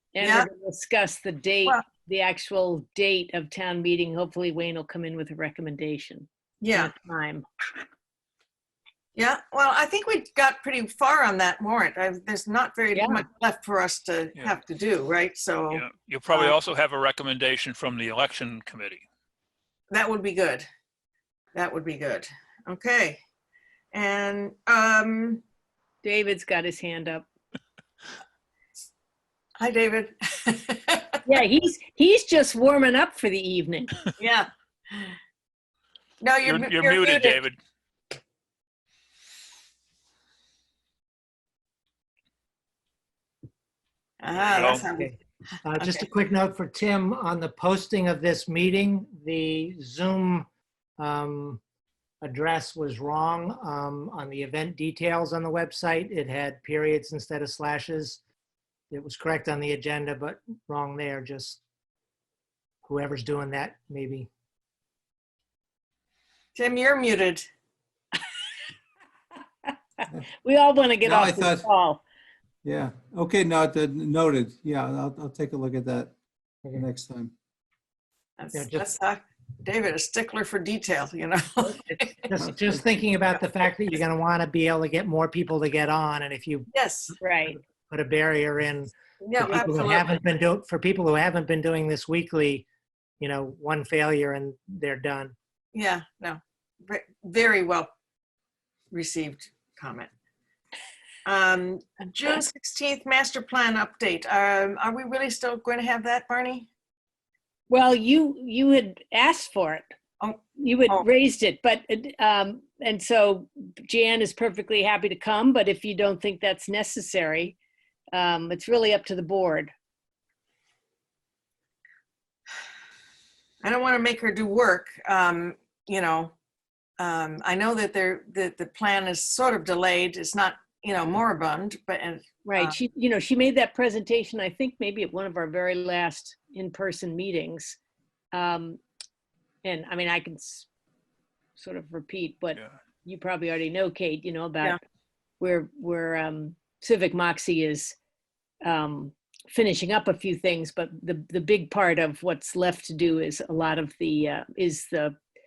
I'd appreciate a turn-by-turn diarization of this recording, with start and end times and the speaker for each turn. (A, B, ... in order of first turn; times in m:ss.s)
0:00.1-0:07.4 A
0:00.2-0:00.5 B
0:06.6-0:06.9 B
0:09.1-0:16.6 B
0:12.9-0:13.2 A
0:15.7-0:19.0 C
0:19.9-0:20.6 B
0:21.5-0:23.2 B
0:23.9-0:25.4 B
0:26.0-0:27.3 A
0:29.6-0:31.2 B
0:31.2-0:33.9 A
0:34.2-0:35.2 B
0:36.2-0:37.4 B
0:36.4-0:37.6 C
0:44.2-0:45.2 B
0:44.3-0:44.9 C
0:44.7-0:50.5 D
0:51.0-0:51.6 D
0:52.2-0:58.2 D
0:58.9-1:01.6 D
1:02.8-1:04.3 D
1:06.5-1:07.4 B
1:10.4-1:12.0 A
1:11.0-1:11.7 E
1:12.6-1:17.3 E
1:18.4-1:22.3 B
1:18.5-1:18.9 D
1:22.3-1:26.7 D
1:22.4-1:22.8 E
1:26.7-1:27.1 B
1:27.2-1:27.6 A
1:27.5-1:32.6 D
1:29.2-1:30.1 B
1:33.2-1:35.3 D
1:35.7-1:37.9 B
1:38.9-1:40.1 B
1:41.2-1:46.7 B
1:47.7-1:49.8 A
1:50.2-1:51.0 B
1:50.6-1:57.6 A
1:58.1-1:59.7 A
2:03.6-2:06.3 B
2:07.0-2:12.8 B
2:12.5-2:17.8 A
2:18.3-2:18.8 A
2:19.6-2:20.7 A
2:21.6-2:24.8 A
2:25.4-2:28.0 A
2:28.6-2:35.1 A